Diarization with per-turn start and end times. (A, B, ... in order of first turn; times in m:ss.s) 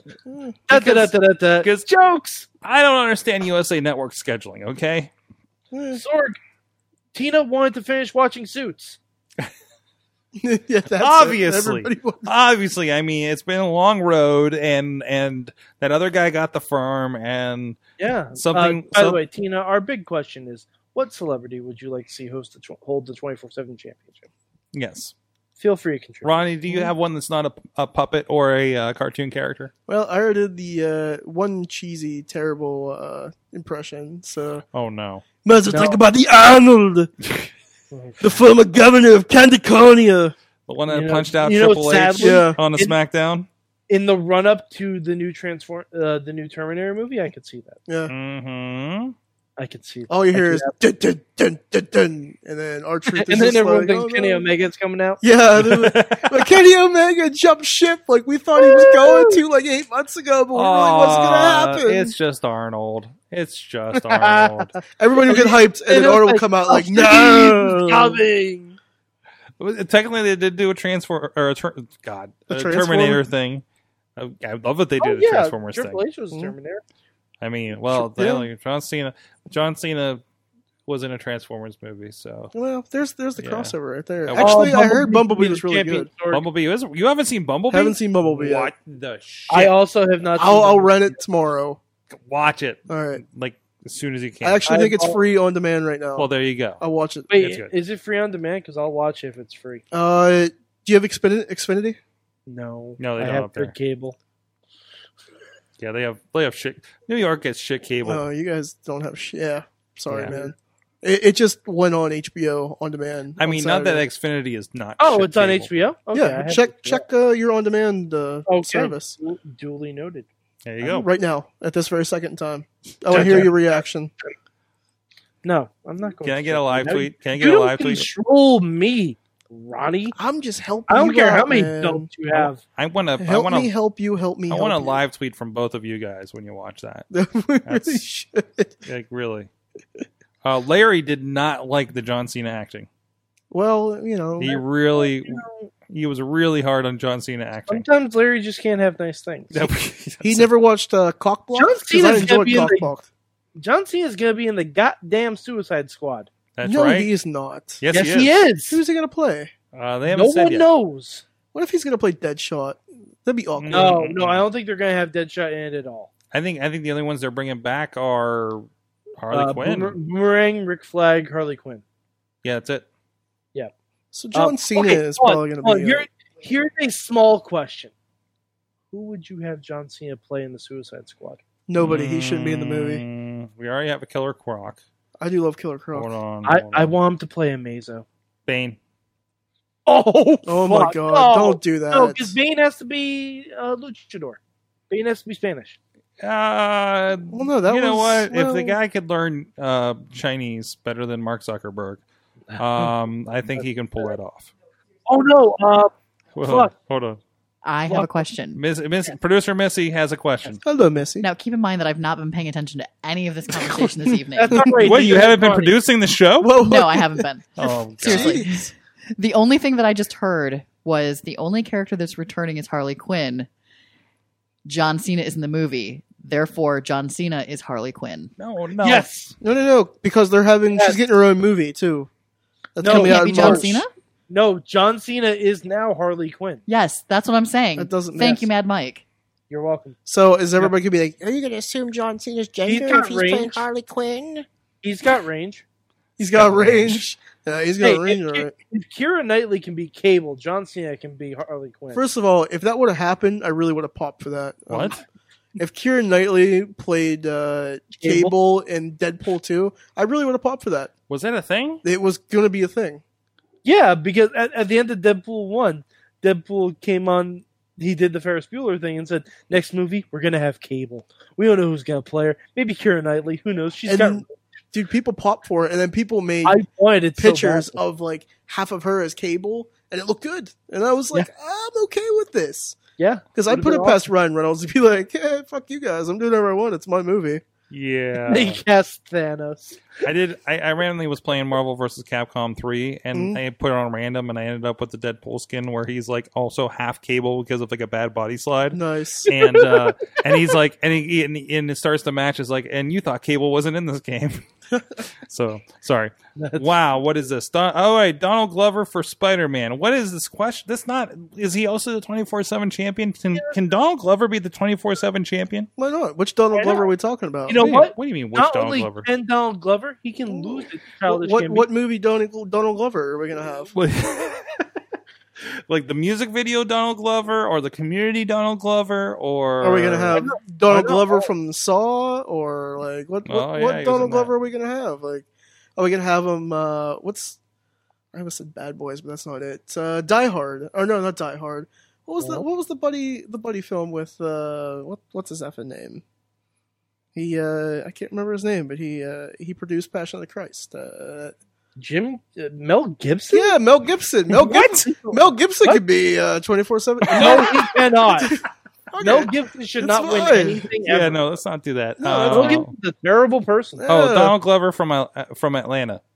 0:00.3-0:00.6 A
0:00.7-0:02.4 B
0:00.7-0:01.9 C
0:02.6-0:05.1 C
0:05.7-0:06.0 A
0:05.9-0:06.4 B
0:07.1-0:09.0 B
0:10.4-0:12.3 A
0:11.0-0:17.8 C
0:18.0-0:24.3 B
0:18.3-0:19.2 C
0:24.7-0:25.1 C
0:25.6-0:26.5 B
0:26.2-0:29.7 C
0:29.9-0:34.6 A
0:34.7-0:35.2 C
0:35.4-0:37.1 A
0:35.7-0:36.0 B
0:37.9-0:38.3 B
0:38.2-0:40.3 A
0:40.7-0:43.5 C
0:40.9-0:43.0 B
0:42.2-0:42.6 A
0:43.9-0:47.8 B
0:47.9-0:48.1 A
0:48.1-0:49.1 C
0:49.6-0:50.7 B
0:50.1-0:54.5 A
0:53.1-0:55.2 B
0:55.2-1:02.2 A
0:55.6-0:56.4 C
0:58.6-0:59.4 B
1:00.5-1:04.7 C
1:03.9-1:04.7 B
1:04.9-1:08.2 A
1:05.2-1:08.8 B
1:09.6-1:13.6 C
1:12.5-1:13.2 A
1:14.2-1:16.0 C
1:15.0-1:16.8 B
1:17.4-1:20.2 C
1:17.9-1:18.5 A
1:20.9-1:22.5 C
1:22.5-1:26.1 A
1:23.4-1:23.7 C
1:24.2-1:24.7 C
1:24.4-1:26.4 B
1:26.3-1:29.7 C
1:27.7-1:28.7 A
1:29.5-1:31.1 B
1:30.4-1:31.8 A
1:32.1-1:34.7 C
1:32.9-1:33.2 A
1:34.4-1:37.3 A
1:34.7-1:35.2 B
1:36.2-1:36.8 C
1:37.3-1:39.8 B
1:37.4-1:37.7 C
1:39.9-1:42.0 A
1:42.5-1:44.2 B
1:43.0-1:43.7 C
1:45.8-1:48.2 C
1:48.0-1:54.0 A
1:50.2-1:50.5 B
1:53.4-1:55.8 C
1:55.0-1:57.0 B
1:56.1-1:59.2 A
1:58.5-2:00.3 B
2:00.6-2:01.1 C
2:00.8-2:04.1 A
2:03.1-2:03.5 C
2:03.1-2:03.5 B
2:05.4-2:10.2 B
2:06.2-2:08.1 C
2:10.2-2:12.1 A
2:10.9-2:12.6 B
2:12.3-2:13.7 C
2:13.2-2:15.0 A
2:14.5-2:17.1 C
2:17.1-2:18.7 A
2:17.6-2:18.0 C
2:18.8-2:19.5 C
2:20.4-2:22.9 C
2:23.5-2:24.6 A
2:24.4-2:27.8 C
2:24.4-2:25.7 B
2:27.7-2:29.7 B
2:29.5-2:30.5 C
2:30.2-2:33.1 A
2:31.5-2:32.9 B
2:33.6-2:36.3 B
2:36.6-2:37.1 C
2:36.6-2:37.8 A
2:37.8-2:38.3 C
2:37.9-2:38.8 B
2:38.6-2:39.5 A
2:39.7-2:40.7 C
2:40.1-2:41.2 B
2:41.5-2:44.0 A
2:43.6-2:44.4 C
2:43.7-2:46.1 B
2:46.3-2:48.7 C
2:49.2-2:50.0 C
2:49.3-2:51.8 B
2:52.4-2:52.8 C
2:54.1-2:56.1 A
2:54.3-2:57.9 B
2:58.9-3:01.4 B
3:01.7-3:03.0 A
3:01.8-3:04.8 C
3:05.2-3:06.1 A
3:05.9-3:06.9 C
3:06.4-3:08.0 B
3:08.5-3:08.8 C
3:09.8-3:15.8 B
3:10.4-3:12.3 A
3:16.2-3:22.0 C
3:17.3-3:18.8 A
3:22.5-3:22.9 B
3:22.6-3:24.5 C
3:25.1-3:26.7 B
3:26.3-3:27.2 C
3:27.6-3:28.6 D
3:28.5-3:30.6 C
3:30.6-3:31.3 A
3:31.2-3:34.8 D
3:34.3-3:35.7 B
3:34.8-3:36.6 C
3:36.4-3:37.3 A
3:36.6-3:43.5 D
3:37.6-3:38.4 C
3:38.0-3:38.7 A
3:44.6-3:48.3 D
3:48.4-3:49.1 C
3:48.8-3:49.3 B
3:49.4-3:52.1 A
3:50.7-3:51.0 B
3:52.8-3:53.8 A
3:52.8-3:53.8 B
3:52.8-3:53.9 D
3:54.3-3:56.6 B
3:56.7-3:59.0 D
3:57.8-3:58.5 A
3:59.5-4:00.0 B
4:00.0-4:04.5 A
4:02.6-4:03.6 B
4:04.8-4:05.6 B
4:06.2-4:08.5 A
4:06.4-4:07.0 C
4:07.8-4:12.0 B
4:11.9-4:15.0 A
4:14.7-4:15.0 C
4:15.6-4:20.9 A
4:18.0-4:18.3 B
4:21.1-4:21.8 C
4:21.8-4:23.0 A
4:23.6-4:34.3 B
4:33.8-4:36.6 A
4:36.4-4:37.8 B
4:37.2-4:42.8 A
4:43.0-4:44.0 B
4:43.3-4:47.4 A
4:47.7-4:48.6 C
4:48.3-4:49.8 B
4:50.0-5:04.4 C
4:53.1-4:53.4 A
4:58.7-4:59.3 A
4:59.3-4:59.9 B
5:05.1-5:15.7 C
5:06.4-5:06.7 B
5:15.8-5:17.6 A
5:16.5-5:16.8 B
5:17.5-5:21.7 B
5:17.6-5:19.1 C
5:20.3-5:23.7 A
5:23.7-5:24.6 C
5:25.7-5:30.2 C
5:29.6-5:37.4 A
5:30.1-5:31.3 B
5:33.2-5:34.3 C
5:38.1-5:46.0 A
5:47.1-5:51.4 A
5:51.8-5:53.6 B
5:53.3-5:57.7 A
5:54.3-5:55.8 B
5:57.1-5:58.4 B
5:58.2-6:00.7 A
5:59.0-6:01.2 B
6:00.8-6:02.7 C
6:02.0-6:02.6 A
6:02.3-6:03.8 B
6:03.8-6:04.3 A
6:03.9-6:06.0 C